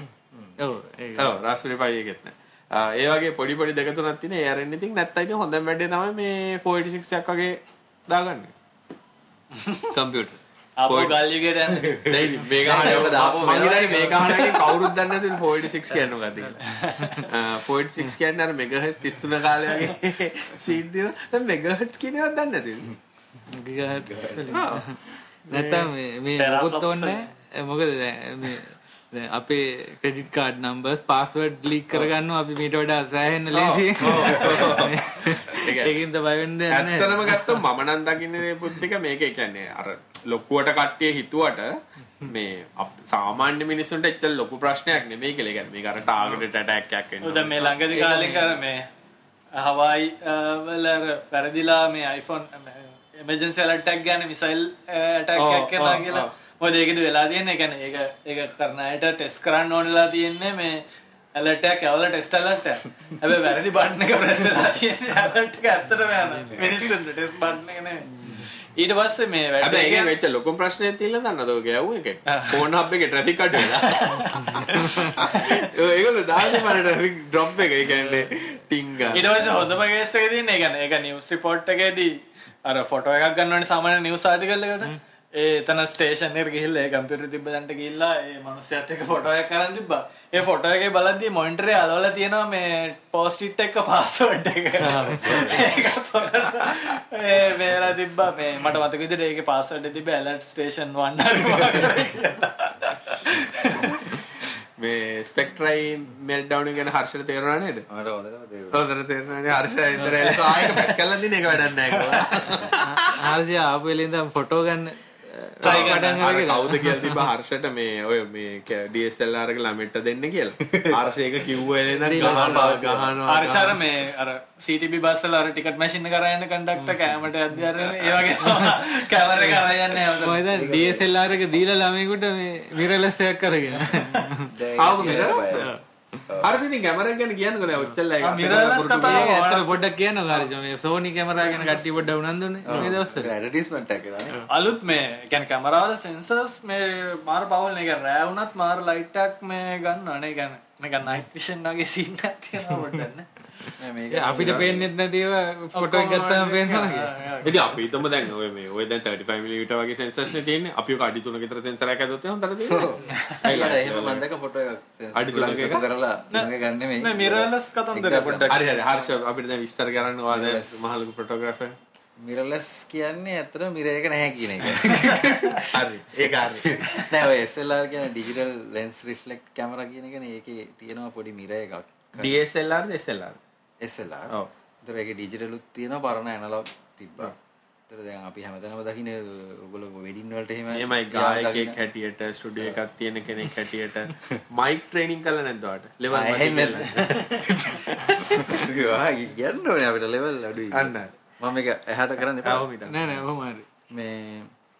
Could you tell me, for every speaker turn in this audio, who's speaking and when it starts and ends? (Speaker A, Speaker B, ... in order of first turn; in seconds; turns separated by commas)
Speaker A: 0.6-1.4, Speaker B: 1.1-8.5, Speaker C: 9.6-9.8, Speaker B: 9.9-11.2, Speaker C: 10.8-14.4, Speaker D: 11.9-14.9, Speaker B: 12.1-22.9, Speaker C: 16.7-17.2, Speaker A: 23.5-37.6, Speaker D: 24.1-24.6, Speaker B: 24.5-24.9, Speaker B: 25.5-25.9, Speaker C: 26.4-27.2, Speaker B: 33.5-36.0, Speaker B: 36.7-47.7, Speaker C: 47.2-48.9, Speaker A: 47.6-48.6, Speaker C: 49.6-60.8, Speaker B: 55.4-56.3, Speaker C: 61.4-70.1, Speaker B: 69.6-79.5, Speaker C: 72.3-72.7, Speaker C: 73.6-75.7, Speaker A: 77.8-78.4, Speaker C: 79.1-82.1, Speaker C: 82.7-104.1, Speaker A: 94.8-95.4, Speaker B: 95.0-95.8, Speaker D: 95.2-95.7, Speaker B: 104.8-107.8, Speaker D: 107.9-108.8, Speaker B: 108.7-113.2, Speaker A: 110.0-110.3, Speaker C: 110.3-110.9, Speaker C: 111.9-112.3, Speaker A: 112.8-117.3, Speaker B: 115.6-123.8, Speaker C: 115.6-116.2, Speaker D: 120.7-121.0, Speaker A: 122.0-122.7, Speaker D: 122.2-123.2, Speaker C: 123.3-130.4, Speaker B: 127.9-128.2, Speaker A: 128.4-129.5, Speaker A: 130.1-134.5, Speaker D: 130.4-131.1, Speaker D: 134.4-135.7, Speaker B: 134.8-135.7, Speaker A: 135.0-135.8, Speaker D: 136.3-136.5, Speaker B: 136.4-139.5, Speaker C: 138.2-139.8, Speaker A: 138.9-143.3, Speaker D: 142.7-144.4, Speaker B: 142.7-143.3, Speaker C: 144.5-153.3, Speaker D: 153.8-154.9, Speaker A: 154.1-157.1, Speaker B: 154.3-154.7, Speaker C: 155.7-157.7, Speaker B: 157.4-164.2, Speaker D: 162.7-168.5, Speaker B: 165.1-165.8, Speaker C: 166.3-169.1, Speaker B: 168.5-171.8, Speaker D: 170.3-170.9, Speaker D: 172.2-182.4, Speaker B: 174.8-176.9, Speaker B: 182.2-183.4, Speaker D: 183.8-187.3, Speaker D: 187.9-191.8, Speaker B: 190.7-198.7, Speaker D: 196.1-202.7, Speaker B: 200.7-201.1, Speaker B: 202.4-203.0, Speaker A: 202.7-203.7, Speaker D: 203.9-204.5